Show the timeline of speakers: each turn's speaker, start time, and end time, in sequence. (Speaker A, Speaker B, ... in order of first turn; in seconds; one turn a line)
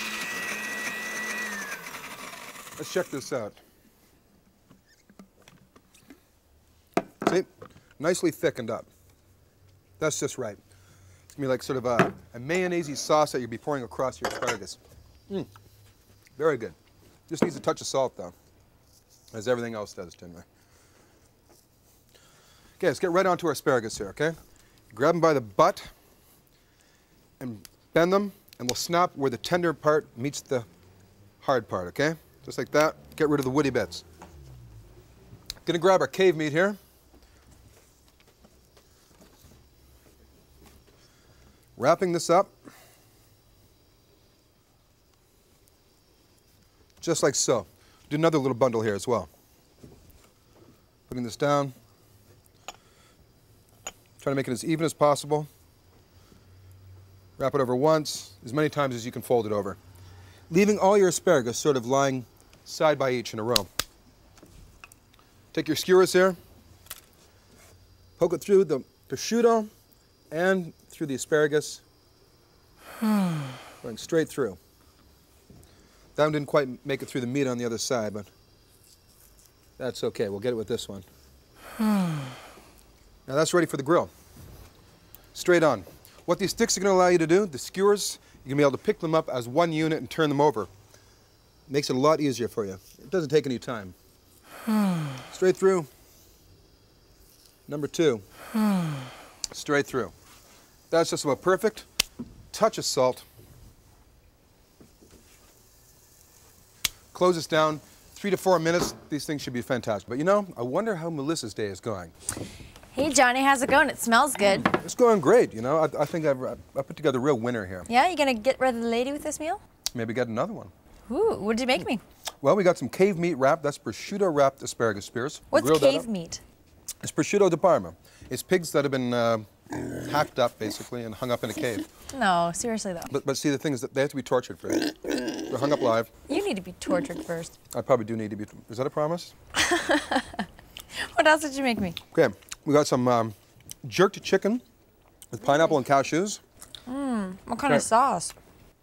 Speaker A: 2.8-3.6
Speaker A: 7.2-8.9
Speaker A: 10.0-10.6
Speaker A: 11.3-15.5
Speaker A: 16.4-16.8
Speaker A: 17.3-18.3
Speaker A: 19.3-20.4
Speaker A: 22.8-24.4
Speaker A: 24.9-25.9
Speaker A: 27.4-30.7
Speaker A: 31.4-34.0
Speaker A: 35.6-36.8
Speaker A: 41.8-42.5
Speaker A: 47.0-49.3
Speaker A: 51.1-51.7
Speaker A: 54.2-55.5
Speaker A: 57.4-59.8
Speaker A: 60.5-63.7
Speaker A: 65.5-66.4
Speaker A: 68.2-69.7
Speaker A: 70.3-71.8
Speaker A: 73.8-74.6
Speaker A: 76.2-78.3
Speaker A: 79.8-81.0
Speaker A: 83.3-84.1
Speaker A: 85.3-90.7
Speaker A: 91.7-93.9
Speaker A: 95.3-95.9
Speaker A: 97.7-98.2
Speaker A: 99.5-100.1
Speaker A: 100.9-101.9
Speaker A: 102.5-103.3
Speaker A: 107.1-112.1
Speaker B: 112.9-114.7
Speaker A: 114.5-117.9
Speaker B: 117.9-119.6
Speaker A: 119.9-120.7
Speaker B: 121.1-122.0
Speaker A: 122.4-126.1
Speaker B: 125.5-126.4
Speaker A: 127.0-131.8
Speaker B: 132.1-133.1
Speaker A: 133.1-136.1
Speaker B: 136.3-137.5
Speaker A: 137.7-139.3
Speaker B: 139.6-142.0
Speaker A: 142.1-144.6
Speaker A: 145.3-146.4
Speaker B: 146.9-148.3